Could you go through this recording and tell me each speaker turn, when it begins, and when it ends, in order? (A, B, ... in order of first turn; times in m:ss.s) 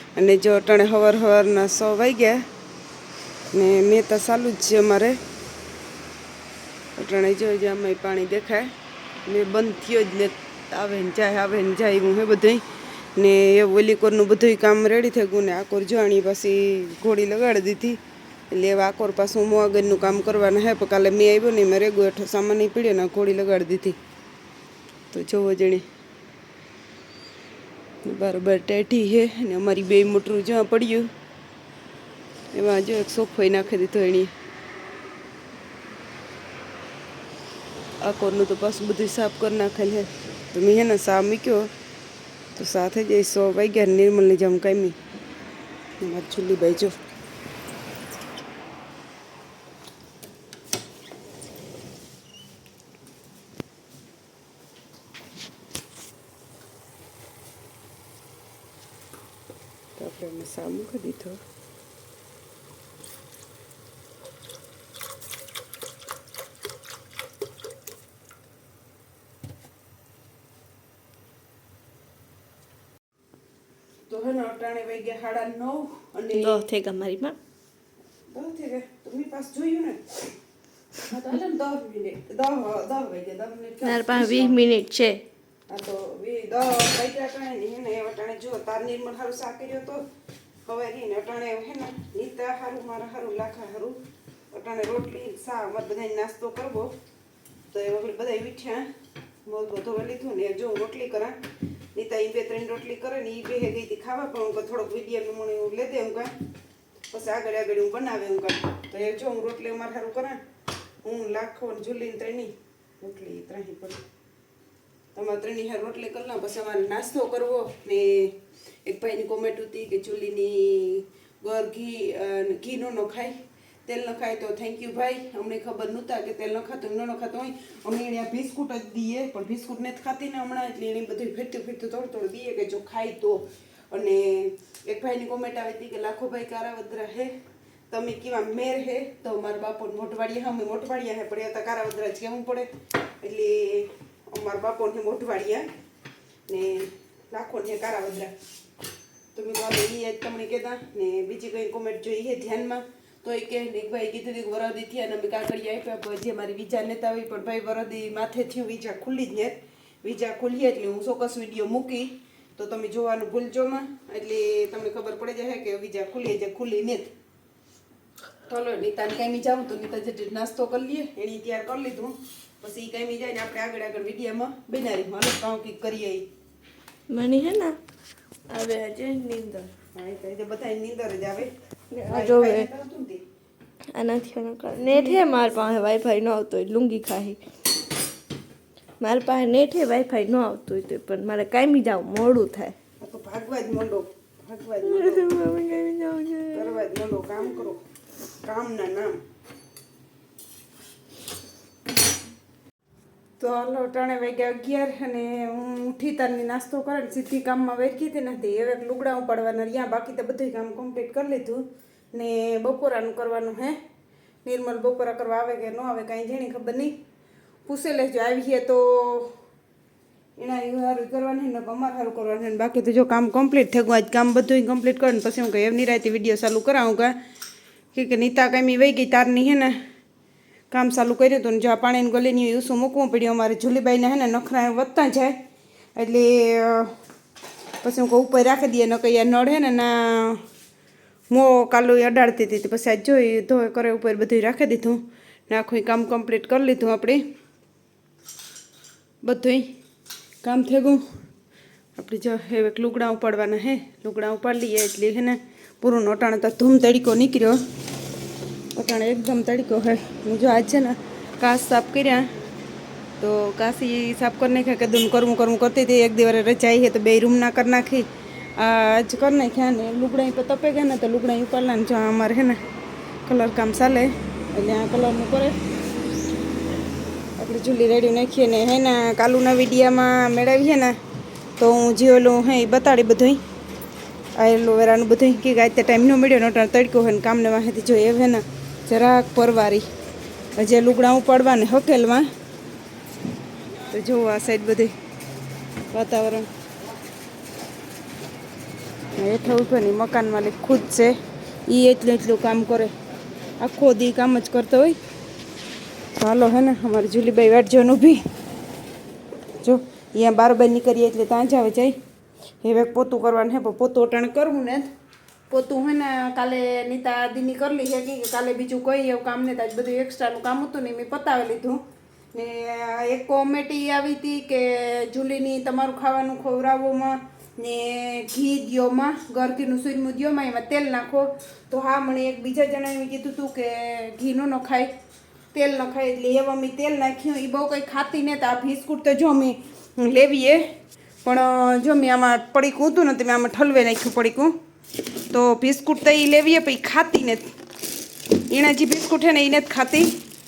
0:00.2-0:02.4 A
0:03.5-0:05.2 A
0:07.0-0:08.7 A
0:09.3-0:12.6 A
0:13.2-0:24.0 A
0:25.1-0:25.8 A
0:28.0-0:31.1 A
0:32.5-0:34.3 A
0:38.0-0:41.7 A
0:42.5-0:45.0 A
0:46.0-0:46.9 A
1:00.0-1:01.4 A
1:14.1-1:16.6 A
1:16.3-1:17.4 B
1:18.3-1:20.3 A
1:21.0-1:24.6 A
1:23.8-1:25.2 B
1:25.7-1:30.0 A
1:30.6-1:34.0 A
1:34.5-1:36.9 A
1:37.7-1:38.9 A
1:39.4-1:41.4 A
1:41.9-1:46.3 A
1:47.1-1:50.4 A
1:51.0-1:54.0 A
1:55.1-2:17.3 A
2:17.9-2:22.7 A
2:23.2-2:25.7 A
2:26.5-2:28.3 A
2:29.3-2:47.1 A
2:48.5-2:56.2 A
2:57.1-2:57.8 B
2:58.5-2:59.7 B
2:59.9-3:01.5 A
3:01.9-3:02.7 B
3:02.1-3:03.2 A
3:03.9-3:07.4 B
3:04.8-3:05.5 A
3:09.0-3:12.7 B
3:13.0-3:15.3 A
3:14.8-3:16.8 B
3:16.5-3:17.8 A
3:18.4-3:19.2 A
3:23.4-3:33.8 A
3:34.4-3:36.9 A
3:37.6-3:39.3 A
3:40.4-3:47.1 A
3:47.9-3:49.8 A
3:50.7-3:55.4 A
3:56.0-3:56.9 A
3:57.8-4:00.4 A
4:01.3-4:07.2 A
4:09.2-4:09.6 A
4:10.4-4:11.0 A
4:12.0-4:17.6 A
4:18.7-4:22.3 A
4:23.2-4:28.1 A
4:28.6-4:32.6 A
4:33.2-4:35.6 A
4:37.4-4:41.0 A
4:41.6-4:43.4 A
4:44.4-4:49.8 A
4:50.6-4:52.3 A
4:53.9-4:54.9 A
4:55.9-4:56.5 A
4:59.2-5:01.2 A
5:01.7-5:02.9 A
5:03.6-5:05.0 A
5:06.2-5:08.2 A
5:09.6-5:11.9 A
5:12.6-5:14.9 A
5:15.5-5:21.8 A
5:22.3-5:34.9 A
5:35.5-5:40.6 A
5:41.2-5:44.5 A
5:45.3-5:47.4 A
5:48.5-5:50.1 A